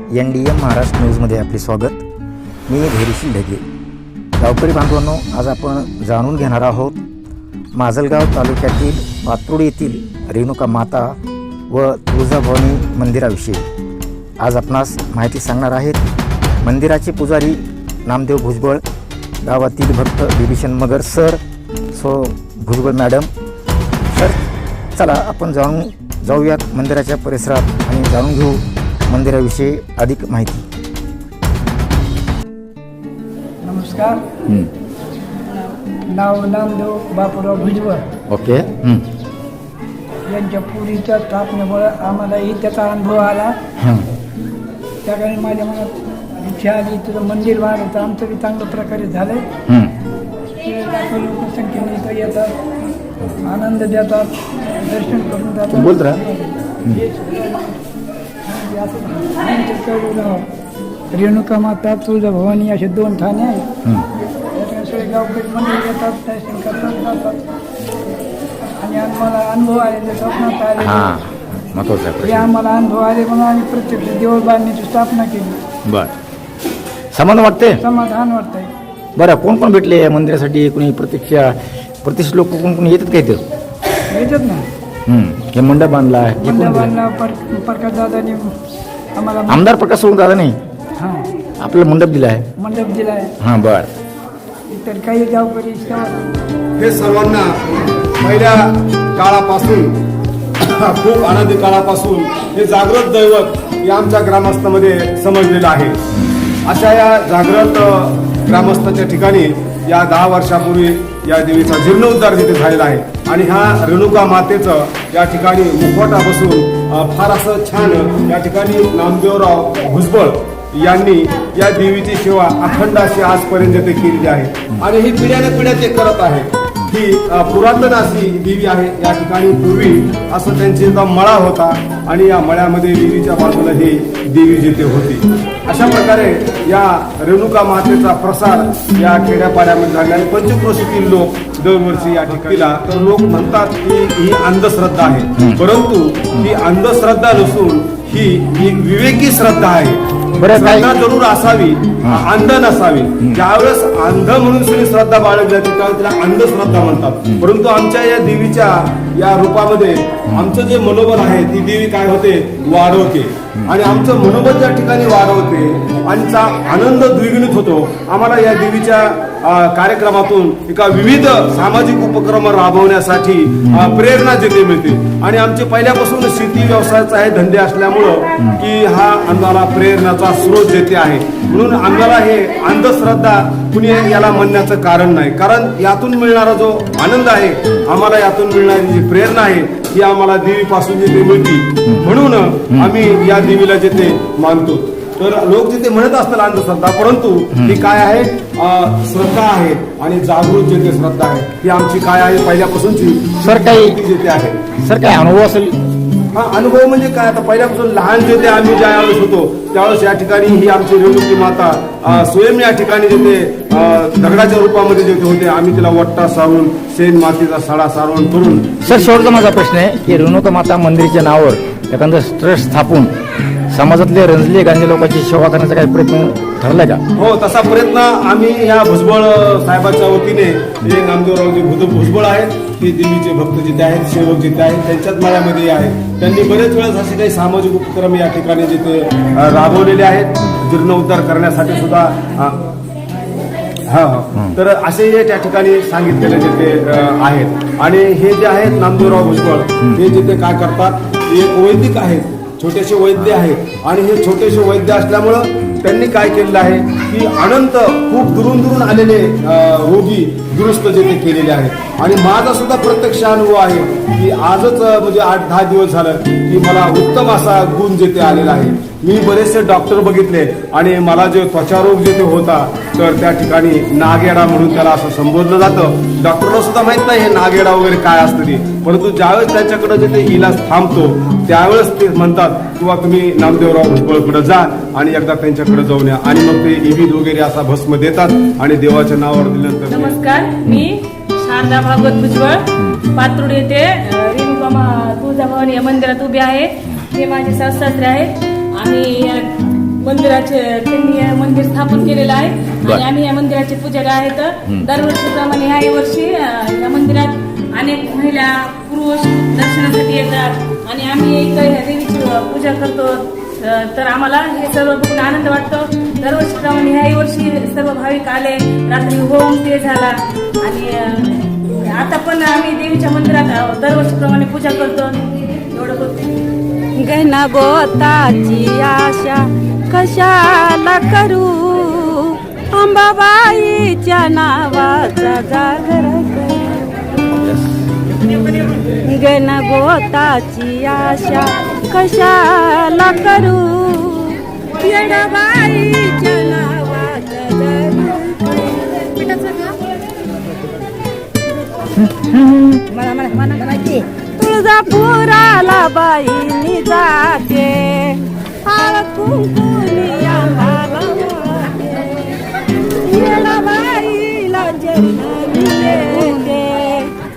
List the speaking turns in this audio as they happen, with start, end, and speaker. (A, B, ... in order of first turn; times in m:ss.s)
0:00.2-0:02.0 A
0:02.7-0:03.6 A
0:04.4-0:07.0 A
0:07.8-0:11.2 A
0:11.7-0:13.6 A
0:14.4-0:16.1 A
0:16.6-0:18.8 A
0:19.4-0:21.4 A
0:21.9-0:23.3 A
0:24.1-0:30.6 A
0:33.6-0:34.2 B
0:36.1-0:38.0 B
0:38.3-0:39.0 A
0:40.3-0:43.5 B
0:43.8-0:44.1 A
0:45.0-0:49.5 B
0:49.7-0:49.9 A
0:50.6-0:52.6 B
0:53.4-0:57.8 B
0:55.7-0:56.2 A
0:58.5-1:00.5 B
1:01.1-1:03.7 B
1:04.6-1:07.4 B
1:08.7-1:11.1 B
1:10.8-1:12.5 A
1:12.2-1:15.6 B
1:15.9-1:16.1 A
1:17.1-1:17.8 A
1:17.8-1:18.7 B
1:19.2-1:23.4 A
1:24.1-1:24.7 B
1:25.1-1:26.9 A
1:26.4-1:28.6 B
1:29.2-1:29.7 B
1:29.5-1:30.6 A
1:31.0-1:31.2 B
1:31.6-1:32.5 A
1:32.6-1:33.3 B
1:33.4-1:33.9 A
1:34.7-1:36.2 B
1:36.8-1:40.0 C
1:40.6-1:46.0 C
1:46.6-3:24.6 C
2:30.4-2:30.9 A
3:17.6-3:17.8 A
3:23.4-3:24.0 A
3:24.8-3:25.8 A
3:26.3-3:39.1 C
3:38.8-3:43.1 A
3:43.7-3:47.0 A
3:47.2-4:02.6 C
4:03.9-4:50.2 C
4:49.9-5:26.4 D
5:27.0-5:37.1 E
5:39.0-5:49.9 E
5:52.1-5:52.8 A
5:52.9-6:07.1 E